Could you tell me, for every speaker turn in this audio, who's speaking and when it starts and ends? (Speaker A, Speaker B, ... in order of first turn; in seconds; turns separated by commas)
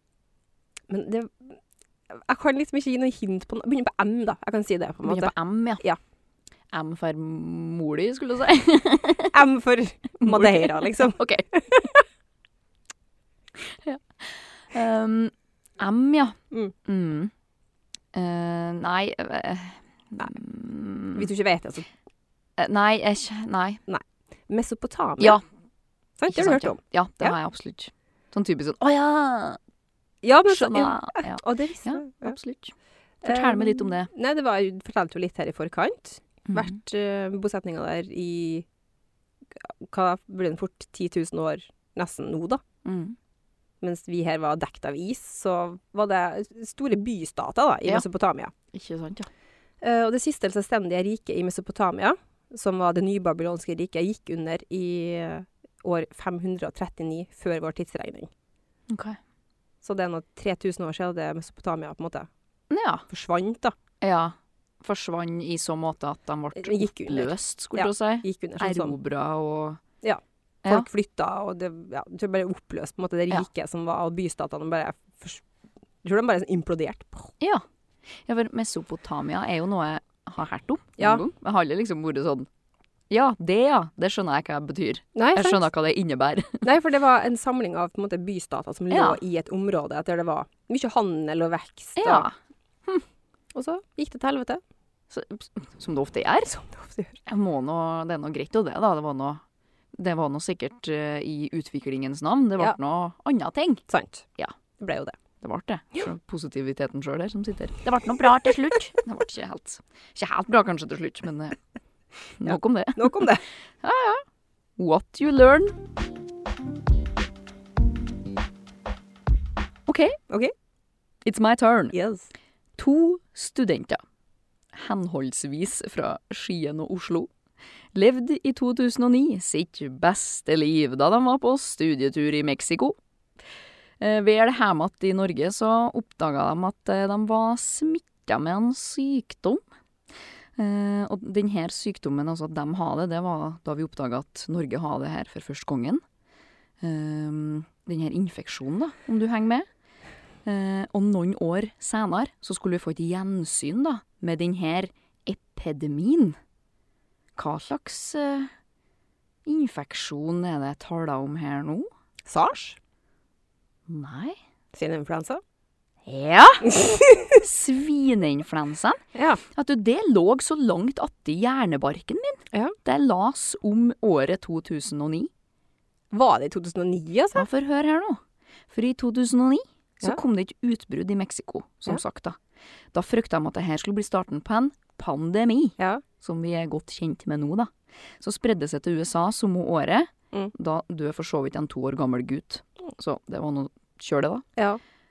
Speaker A: 0.9-6.0, Speaker B: 5.0-5.8, Speaker B: 6.7-9.3, Speaker A: 9.3-11.9, Speaker B: 10.2-11.8, Speaker B: 13.6-17.3, Speaker B: 18.1-21.3, Speaker A: 21.1-21.9, Speaker B: 22.6-23.8, Speaker A: 23.9-25.4, Speaker A: 26.2-27.4, Speaker B: 26.3-29.6, Speaker A: 30.2-32.4, Speaker B: 30.5-34.1, Speaker A: 33.2-38.6, Speaker B: 36.5-36.8, Speaker A: 39.6-42.6, Speaker B: 42.8-43.1, Speaker A: 43.8-48.5, Speaker B: 48.7-49.3, Speaker A: 49.8-58.3, Speaker B: 58.9-59.2, Speaker A: 59.8-62.3, Speaker B: 62.7-63.0, Speaker A: 63.1-63.7, Speaker B: 64.0-69.8, Speaker A: 66.5-69.0, Speaker A: 70.0-75.4, Speaker A: 76.0-77.3, Speaker B: 78.2-82.5, Speaker A: 81.0-81.2, Speaker B: 83.1-86.6, Speaker A: 85.1-85.7, Speaker A: 86.6-92.3, Speaker B: 88.9-89.2, Speaker B: 92.0-93.0, Speaker A: 93.5-94.6, Speaker B: 95.1-96.6, Speaker A: 96.6-97.2, Speaker B: 97.2-99.4, Speaker B: 99.9-103.8, Speaker A: 103.9-104.2, Speaker A: 104.8-105.2, Speaker B: 105.4-111.6, Speaker B: 112.4-114.2, Speaker A: 112.5-113.4, Speaker B: 114.8-115.8, Speaker B: 119.8-120.2, Speaker B: 121.2-121.9, Speaker A: 121.9-122.3, Speaker B: 122.8-124.0, Speaker B: 124.7-127.3, Speaker B: 127.9-133.0, Speaker B: 134.0-139.6, Speaker B: 140.6-146.0, Speaker B: 146.8-149.7, Speaker B: 150.4-156.4, Speaker B: 157.3-158.5, Speaker B: 159.4-161.9, Speaker A: 162.3-162.8, Speaker B: 163.9-164.4, Speaker A: 164.7-165.4, Speaker B: 166.0-175.3, Speaker A: 166.7-167.4, Speaker A: 169.1-169.4, Speaker A: 176.1-177.4, Speaker B: 177.3-182.4, Speaker B: 182.9-194.4, Speaker A: 185.8-186.0